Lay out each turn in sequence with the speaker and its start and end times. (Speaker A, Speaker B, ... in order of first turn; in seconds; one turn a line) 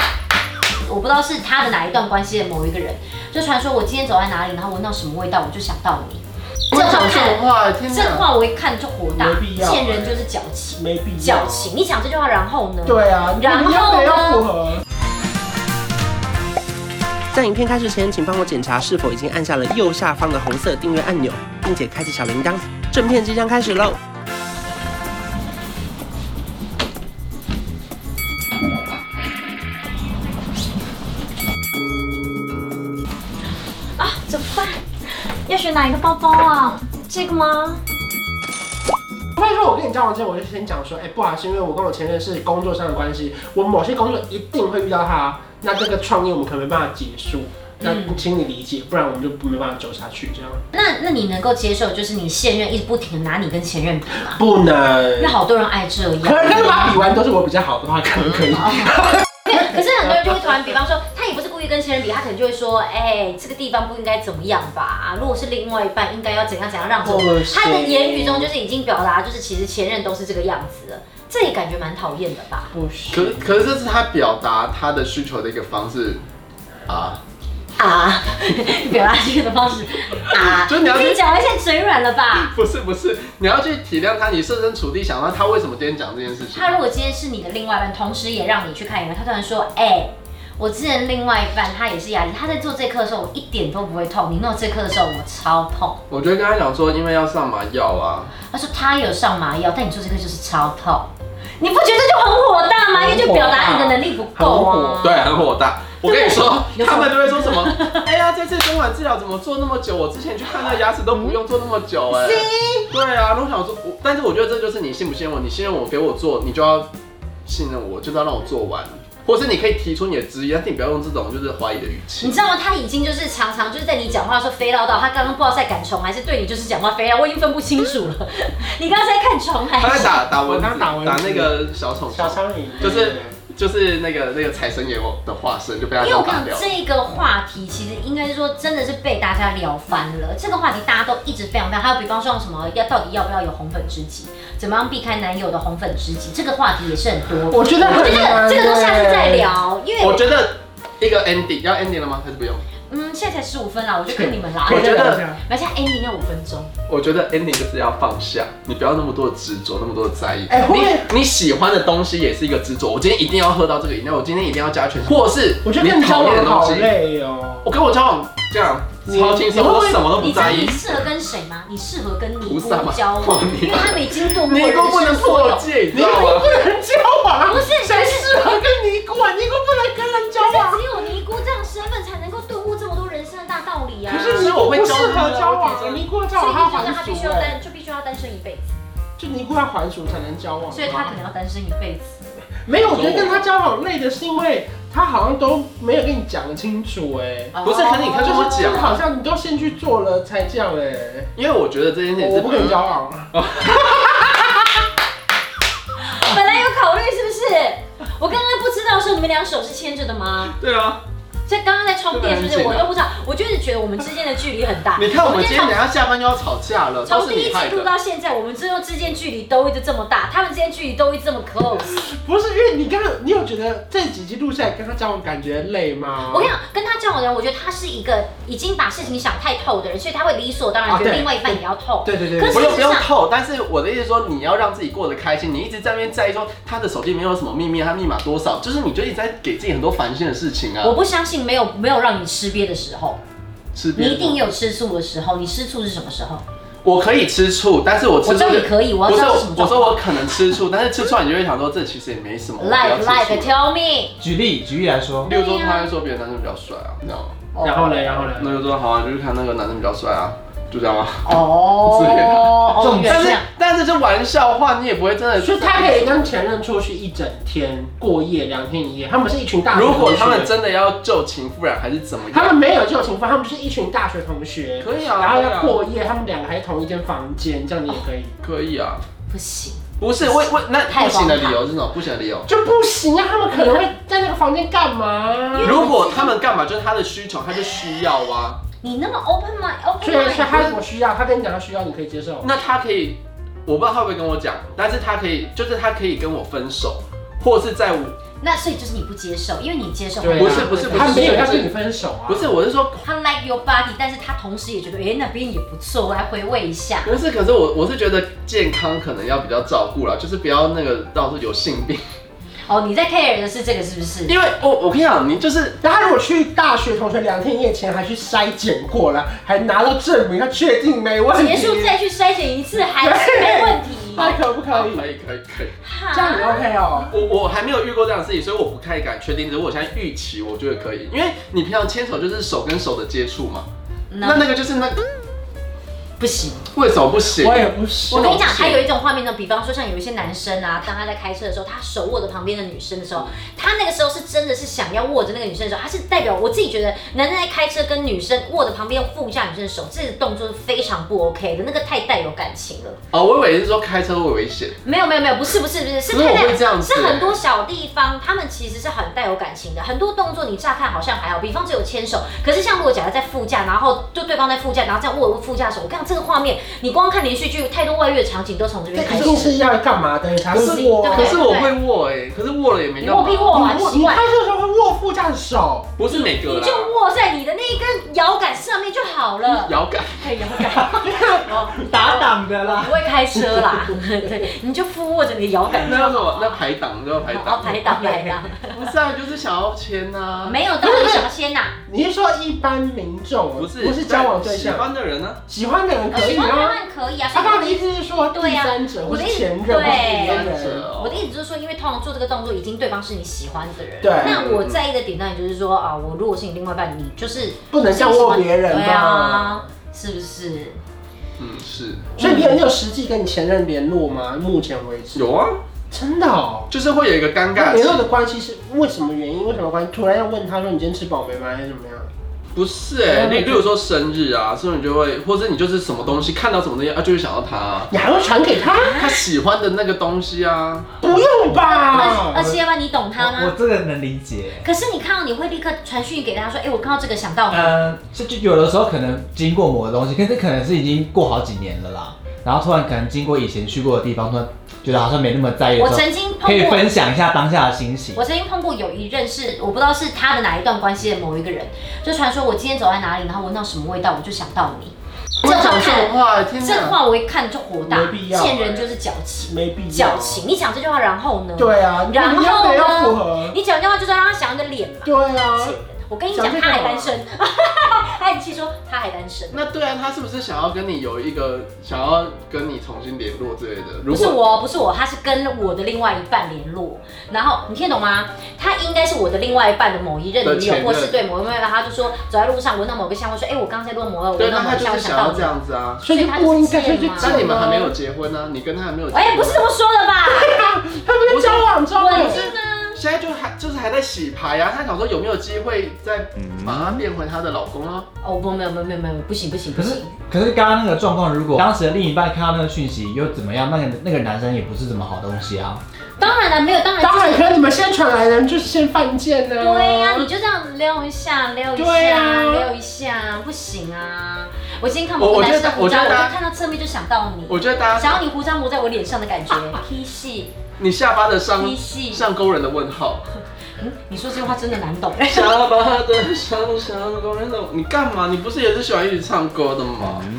Speaker A: 0.8-14.5
Speaker B: 6.7-8.3
Speaker C: 9.1-11.7
Speaker C: 12.8-14.8
Speaker D: 17.3-23.9
Speaker C: 17.4-18.9
Speaker C: 23.0-23.4
Speaker A: 34.0-37.8
Speaker C: 39.4-50.6
Speaker A: 47.8-48.2
Speaker A: 50.7-54.4
Speaker C: 54.2-55.4
Speaker A: 55.2-56.9
Speaker C: 56.2-59.2
Speaker A: 58.5-72.7
Speaker C: 67.0-68.5
Speaker C: 72.7-73.5
Speaker B: 73.1-76.2
Speaker B: 76.9-77.2
Speaker A: 77.8-82.5
Speaker B: 80.3-81.2
Speaker B: 82.3-86.8
Speaker A: 86.5-96.0
Speaker B: 96.1-98.3
Speaker A: 98.5-105.3
Speaker C: 102.9-105.2
Speaker B: 105.0-116.9
Speaker A: 106.0-108.1
Speaker C: 112.1-112.9
Speaker B: 117.5-122.4
Speaker A: 122.2-130.2
Speaker B: 129.8-136.7
Speaker C: 130.0-131.6
Speaker C: 132.1-133.3
Speaker A: 136.0-150.3
Speaker C: 147.5-149.5
Speaker B: 150.0-152.6
Speaker A: 152.9-156.7
Speaker C: 154.1-155.4
Speaker B: 154.7-155.2
Speaker B: 156.9-166.9
Speaker C: 160.5-161.1
Speaker C: 165.6-167.7
Speaker B: 167.6-170.8
Speaker C: 169.0-170.7
Speaker A: 170.2-175.7
Speaker B: 172.4-176.5
Speaker C: 175.9-180.8
Speaker A: 177.4-178.3
Speaker A: 180.4-184.6
Speaker C: 184.1-187.6
Speaker B: 184.1-186.1
Speaker A: 186.3-188.8
Speaker C: 189.2-191.2
Speaker A: 190.7-192.3
Speaker C: 192.6-201.3
Speaker B: 192.7-193.5
Speaker A: 197.5-199.0
Speaker B: 197.6-199.0
Speaker B: 201.3-202.8
Speaker C: 202.2-203.7
Speaker B: 203.3-204.1
Speaker A: 206.0-210.5
Speaker B: 210.5-211.0
Speaker A: 211.5-215.8
Speaker B: 212.1-212.9
Speaker B: 214.9-217.9
Speaker A: 217.1-221.9
Speaker C: 221.9-226.5
Speaker A: 226.3-233.1
Speaker C: 230.9-232.8
Speaker B: 232.5-240.9
Speaker A: 240.8-243.2
Speaker B: 243.7-244.4
Speaker A: 243.9-246.4
Speaker B: 246.8-253.5
Speaker A: 248.2-250.0
Speaker A: 252.6-254.2
Speaker E: 254.2-255.3
Speaker B: 255.2-257.6
Speaker A: 255.2-255.9
Speaker A: 257.5-258.2
Speaker C: 257.6-258.6
Speaker B: 258.3-266.3
Speaker A: 261.2-263.4
Speaker E: 262.8-263.4
Speaker C: 265.4-270.5
Speaker B: 269.7-272.6
Speaker C: 272.3-278.3
Speaker B: 274.8-275.8
Speaker B: 278.4-279.0
Speaker A: 279.3-281.6
Speaker B: 280.0-282.5
Speaker C: 282.4-285.9
Speaker A: 283.5-283.8
Speaker A: 285.5-286.4
Speaker B: 285.6-288.6
Speaker A: 288.8-290.7
Speaker C: 290.0-292.5
Speaker B: 290.3-290.8
Speaker B: 292.4-298.1
Speaker A: 298.4-301.6
Speaker C: 300.2-302.5
Speaker B: 300.3-301.7
Speaker B: 302.2-303.0
Speaker A: 303.0-307.1
Speaker B: 307.0-312.0
Speaker A: 312.7-314.4
Speaker B: 314.3-315.8
Speaker C: 315.8-322.0
Speaker A: 321.3-324.4
Speaker C: 323.0-325.1
Speaker B: 324.1-325.8
Speaker A: 325.8-326.6
Speaker C: 326.1-327.1
Speaker B: 327.1-333.7
Speaker A: 334.1-334.4
Speaker B: 334.2-335.0
Speaker A: 336.2-336.6
Speaker B: 336.7-338.9
Speaker C: 337.4-338.3
Speaker A: 338.1-353.0
Speaker B: 353.1-354.8
Speaker A: 354.8-369.6
Speaker B: 356.1-357.4
Speaker C: 368.9-371.4
Speaker A: 370.5-371.8
Speaker B: 370.5-373.6
Speaker A: 373.0-374.2
Speaker C: 373.5-375.9
Speaker B: 376.0-376.9
Speaker A: 376.1-386.7
Speaker B: 379.4-380.3
Speaker C: 381.0-381.4
Speaker E: 381.7-383.0
Speaker B: 385.7-388.1
Speaker A: 387.2-388.9
Speaker B: 388.7-390.6
Speaker A: 390.4-391.8
Speaker C: 390.8-391.3
Speaker C: 391.9-394.9
Speaker B: 393.6-395.4
Speaker C: 395.5-396.8
Speaker A: 396.1-410.8
Speaker C: 397.3-400.9
Speaker B: 399.8-401.2
Speaker C: 404.0-404.6
Speaker B: 404.2-404.8
Speaker C: 407.7-409.6
Speaker B: 411.4-412.1
Speaker A: 412.2-412.6
Speaker C: 412.2-415.2
Speaker B: 415.1-415.6
Speaker C: 415.9-416.7
Speaker B: 416.7-418.0
Speaker C: 417.5-422.1
Speaker B: 422.5-427.9
Speaker C: 423.1-423.7
Speaker C: 427.9-429.0
Speaker B: 428.9-430.9
Speaker C: 431.0-432.5
Speaker A: 431.6-433.5
Speaker E: 433.2-434.7
Speaker A: 434.6-437.8
Speaker E: 437.5-448.2
Speaker A: 445.8-446.9
Speaker A: 448.1-469.6
Speaker B: 455.4-457.0
Speaker C: 457.9-458.9
Speaker C: 459.4-460.4
Speaker C: 461.6-463.6
Speaker C: 465.0-465.8
Speaker C: 466.3-467.1
Speaker B: 469.5-474.4
Speaker A: 474.1-487.5
Speaker B: 480.4-481.2
Speaker B: 484.4-486.0
Speaker C: 486.0-487.9
Speaker B: 487.2-489.7
Speaker A: 489.1-490.7
Speaker C: 490.3-492.5
Speaker B: 491.2-498.1
Speaker A: 492.0-493.0
Speaker E: 496.4-497.0
Speaker A: 498.2-500.1
Speaker E: 499.7-505.8
Speaker A: 506.2-507.5
Speaker C: 507.0-510.3
Speaker A: 509.6-520.5
Speaker C: 511.7-512.7
Speaker B: 515.2-516.4
Speaker B: 517.5-518.2
Speaker B: 520.8-523.2
Speaker A: 521.5-522.3
Speaker A: 523.8-525.6
Speaker B: 525.2-530.3